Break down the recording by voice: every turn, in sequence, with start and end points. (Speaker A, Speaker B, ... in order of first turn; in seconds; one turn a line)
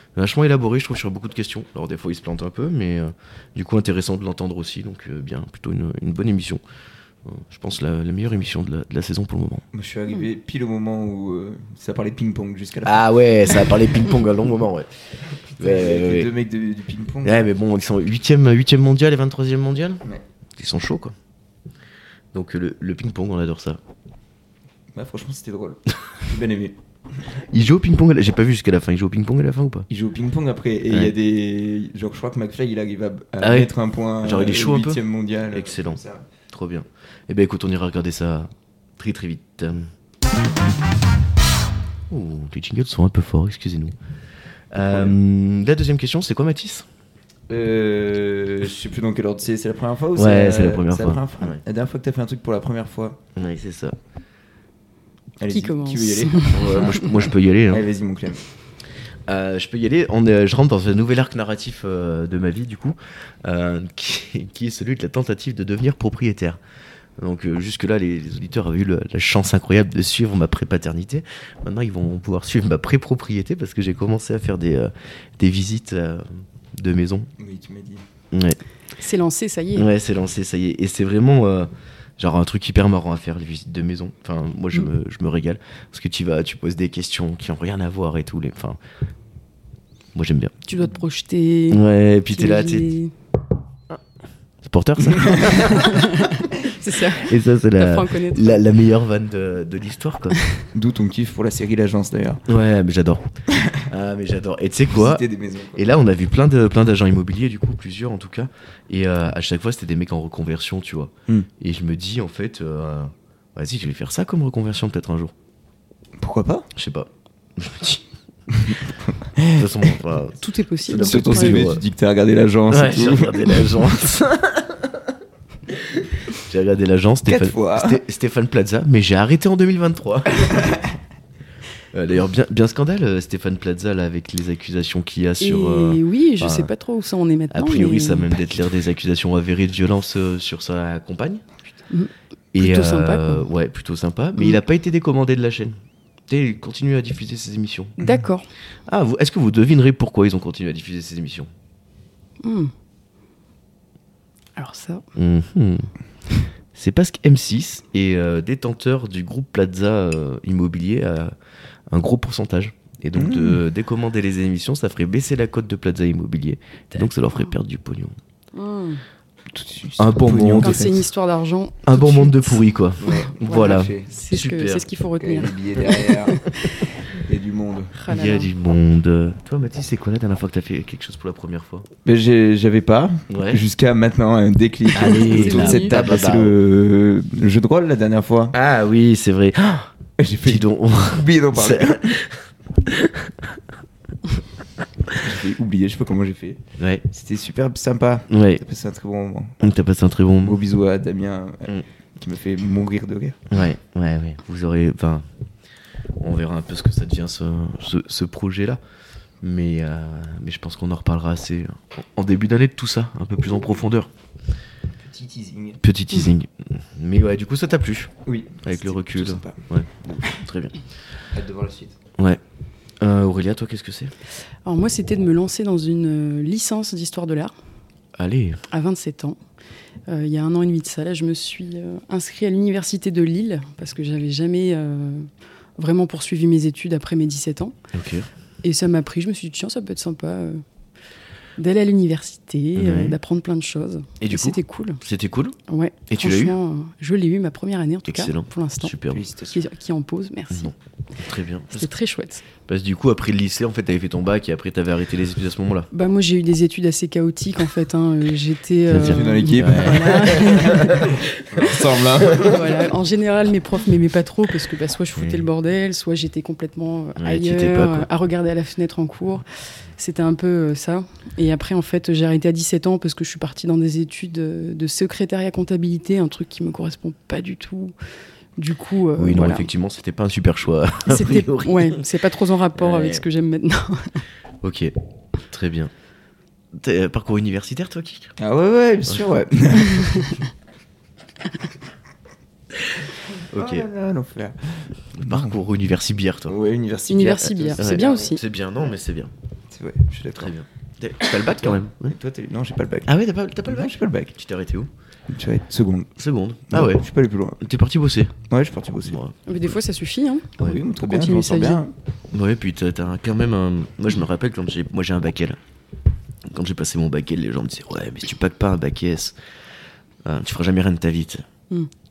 Speaker A: 0.2-6.6
Speaker A: 7.2-9.7
Speaker B: 9.7-13.8
Speaker A: 12.8-14.9
Speaker B: 15.5-17.5
Speaker A: 15.6-16.3
Speaker A: 17.2-20.0
Speaker A: 20.6-21.1
Speaker A: 22.3-23.8
Speaker B: 24.9-26.8
Speaker A: 27.5-29.9
Speaker B: 29.9-36.3
Speaker A: 33.4-39.9
Speaker A: 42.1-44.0
Speaker A: 44.7-46.9
Speaker B: 44.8-45.2
Speaker B: 47.5-53.2
Speaker A: 50.2-51.6
Speaker A: 53.4-54.0
Speaker B: 55.4-58.4
Speaker C: 55.5-57.0
Speaker A: 56.5-57.8
Speaker A: 59.3-66.6
Speaker A: 67.2-77.3
Speaker B: 77.4-78.0
Speaker A: 78.3-78.6
Speaker C: 79.0-79.9
Speaker A: 79.8-88.8
Speaker A: 90.1-90.5
Speaker C: 90.7-93.1
Speaker A: 91.7-92.9
Speaker A: 94.6-96.1
Speaker B: 95.1-95.5
Speaker C: 95.5-98.6
Speaker A: 97.1-100.4
Speaker B: 100.7-102.4
Speaker A: 102.5-103.2
Speaker A: 103.9-105.2
Speaker B: 104.9-105.9
Speaker A: 105.8-115.3
Speaker B: 116.2-116.7
Speaker A: 116.7-118.0
Speaker B: 118.5-118.8
Speaker B: 119.4-119.9
Speaker A: 119.6-121.8
Speaker C: 120.4-121.7
Speaker B: 121.0-123.8
Speaker A: 122.7-125.1
Speaker A: 125.7-130.7
Speaker B: 127.3-128.0
Speaker A: 131.9-136.7
Speaker C: 135.4-138.3
Speaker A: 137.5-141.5
Speaker C: 141.9-143.5
Speaker A: 142.5-145.8
Speaker A: 146.3-148.0
Speaker C: 148.0-148.5
Speaker A: 148.9-151.5
Speaker C: 152.4-152.7
Speaker C: 154.6-155.0
Speaker A: 155.2-155.9
Speaker A: 156.7-161.4
Speaker A: 161.9-168.2
Speaker B: 163.1-163.6
Speaker C: 166.9-167.5
Speaker C: 168.6-169.0
Speaker B: 169.5-171.0
Speaker A: 170.0-170.9
Speaker C: 170.6-176.9
Speaker A: 171.8-174.8
Speaker B: 173.0-174.1
Speaker B: 175.2-176.4
Speaker B: 177.1-177.9
Speaker C: 177.9-178.5
Speaker A: 178.1-181.9
Speaker B: 182.1-188.6
Speaker A: 183.3-183.6
Speaker A: 184.9-186.6
Speaker C: 185.0-186.0
Speaker A: 188.5-189.9
Speaker B: 190.2-192.2
Speaker A: 190.4-193.6
Speaker B: 195.2-199.6
Speaker A: 196.8-197.1
Speaker A: 198.3-198.6
Speaker A: 199.6-200.6
Speaker B: 200.4-203.5
Speaker A: 203.5-205.3
Speaker A: 206.2-208.8
Speaker A: 209.4-214.1
Speaker B: 215.0-215.8
Speaker A: 215.8-218.1
Speaker B: 218.3-220.2
Speaker A: 218.6-220.8
Speaker B: 221.3-222.0
Speaker A: 223.0-224.1
Speaker C: 224.7-227.5
Speaker A: 228.2-228.6
Speaker C: 228.7-229.4
Speaker C: 230.1-237.8
Speaker A: 237.9-238.3
Speaker C: 238.6-240.6
Speaker C: 241.6-245.0
Speaker A: 242.8-243.2
Speaker A: 244.2-245.6
Speaker C: 245.7-248.9
Speaker A: 246.1-246.6
Speaker A: 248.1-249.3
Speaker B: 249.1-249.6
Speaker C: 249.5-250.7
Speaker A: 250.5-251.9
Speaker C: 251.7-252.4
Speaker A: 252.7-255.9
Speaker C: 255.9-261.1
Speaker A: 258.9-262.6
Speaker B: 258.9-262.6
Speaker C: 262.3-269.4
Speaker A: 265.2-265.5
Speaker A: 267.2-268.1
Speaker C: 270.0-277.9
Speaker C: 278.6-279.7
Speaker A: 279.2-282.1
Speaker C: 281.1-284.2
Speaker A: 282.8-283.2
Speaker A: 284.6-284.9
Speaker A: 285.5-285.9
Speaker A: 286.7-288.3
Speaker B: 288.4-290.4
Speaker A: 292.8-293.9
Speaker B: 293.3-295.6
Speaker A: 295.1-296.6
Speaker B: 296.5-298.2
Speaker C: 297.1-298.4
Speaker A: 297.8-299.3
Speaker B: 299.7-300.5
Speaker A: 300.4-302.2
Speaker B: 301.4-303.1
Speaker A: 303.1-304.9
Speaker B: 303.6-304.3
Speaker B: 305.3-306.1
Speaker A: 306.2-307.1
Speaker B: 306.7-307.6
Speaker A: 307.6-308.3
Speaker B: 308.5-309.2
Speaker A: 309.1-309.8
Speaker C: 309.5-311.8
Speaker B: 310.6-311.9
Speaker A: 312.3-315.6
Speaker A: 316.5-319.4
Speaker A: 320.2-321.4